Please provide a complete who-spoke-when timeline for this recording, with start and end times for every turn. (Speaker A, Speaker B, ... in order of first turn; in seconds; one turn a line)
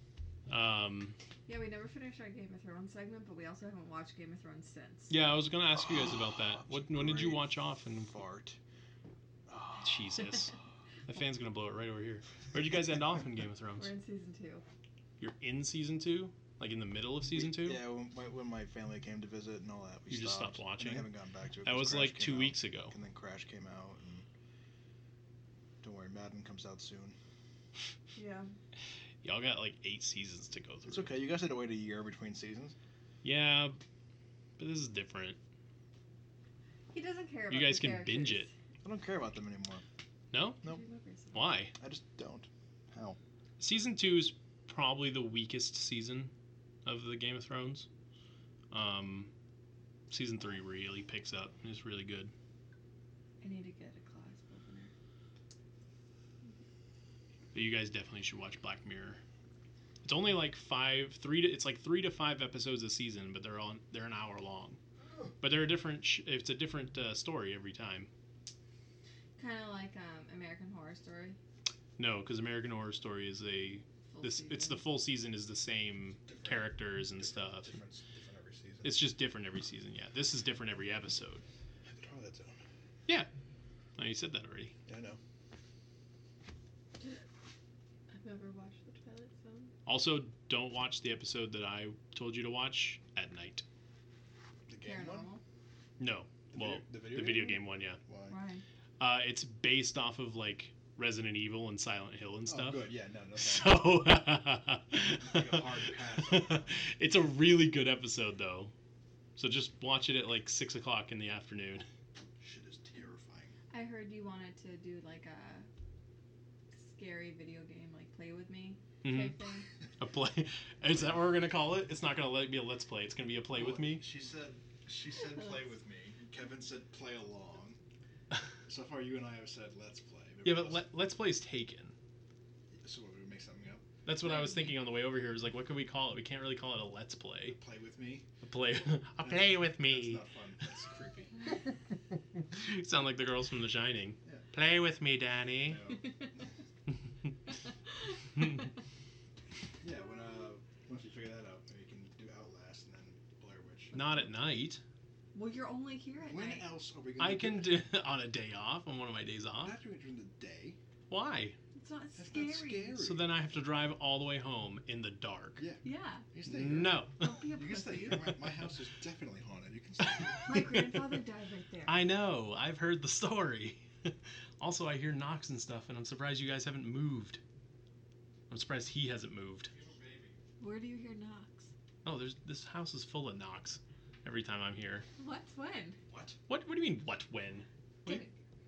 Speaker A: 0.5-1.2
Speaker B: 1.5-5.2
Speaker A: 5.1-8.1
Speaker C: 5.8-8.6
Speaker C: 9.5-10.3
Speaker A: 9.8-13.9
Speaker B: 13.8-14.6
Speaker A: 15.2-17.8
Speaker C: 17.3-24.3
Speaker A: 20.1-21.1
Speaker A: 21.6-22.9
Speaker C: 25.8-27.2
Speaker B: 28.1-28.5
Speaker A: 29.2-31.2
Speaker C: 30.9-32.8
Speaker A: 33.2-33.8
Speaker A: 34.6-35.4
Speaker B: 36.9-38.5
Speaker A: 37.5-38.5
Speaker C: 38.8-39.9
Speaker A: 40.3-40.6
Speaker B: 40.6-41.4
Speaker A: 41.3-41.7
Speaker C: 41.8-43.2
Speaker A: 43.6-46.3
Speaker A: 46.9-47.9
Speaker A: 48.7-49.3
Speaker A: 50.1-52.3
Speaker B: 53.4-54.9
Speaker A: 57.5-59.2
Speaker A: 60.0-64.8
Speaker A: 65.4-68.1
Speaker B: 69.4-71.4
Speaker A: 72.0-77.8
Speaker B: 74.1-74.8
Speaker C: 76.3-79.1
Speaker A: 78.8-81.4
Speaker C: 81.8-82.6
Speaker A: 84.0-84.8
Speaker C: 84.9-85.2
Speaker B: 88.1-89.7
Speaker A: 89.9-93.6
Speaker C: 94.7-95.3
Speaker B: 94.8-95.4
Speaker A: 96.0-98.0
Speaker C: 96.5-98.4
Speaker B: 98.3-98.6
Speaker A: 99.0-108.7
Speaker C: 102.5-103.9
Speaker C: 105.0-106.8
Speaker A: 109.4-111.9
Speaker C: 112.4-113.5
Speaker B: 113.7-115.7
Speaker B: 116.7-119.7
Speaker A: 119.0-119.4
Speaker A: 120.0-124.0
Speaker C: 123.5-127.8
Speaker C: 128.7-130.9
Speaker A: 130.4-131.9
Speaker C: 132.8-133.9
Speaker A: 134.1-137.6
Speaker B: 134.3-134.7
Speaker C: 137.5-138.3
Speaker A: 138.4-140.2
Speaker C: 139.2-141.3
Speaker A: 142.4-145.8
Speaker C: 145.6-146.5
Speaker C: 149.8-154.0
Speaker A: 153.9-154.8
Speaker B: 155.3-156.7
Speaker C: 156.2-157.8
Speaker A: 157.2-159.8
Speaker C: 159.6-160.8
Speaker A: 161.1-161.6
Speaker B: 161.8-163.0
Speaker C: 162.2-163.4
Speaker A: 163.0-165.6
Speaker C: 165.6-170.6
Speaker B: 165.8-166.3
Speaker A: 166.4-167.4
Speaker B: 167.2-168.3
Speaker A: 170.1-170.9
Speaker B: 170.4-172.0
Speaker A: 171.9-177.4
Speaker A: 178.5-179.7
Speaker C: 179.7-180.4
Speaker B: 180.6-181.7
Speaker A: 182.0-185.1
Speaker B: 185.2-186.0
Speaker C: 186.1-186.4
Speaker A: 186.5-188.3
Speaker B: 188.1-188.4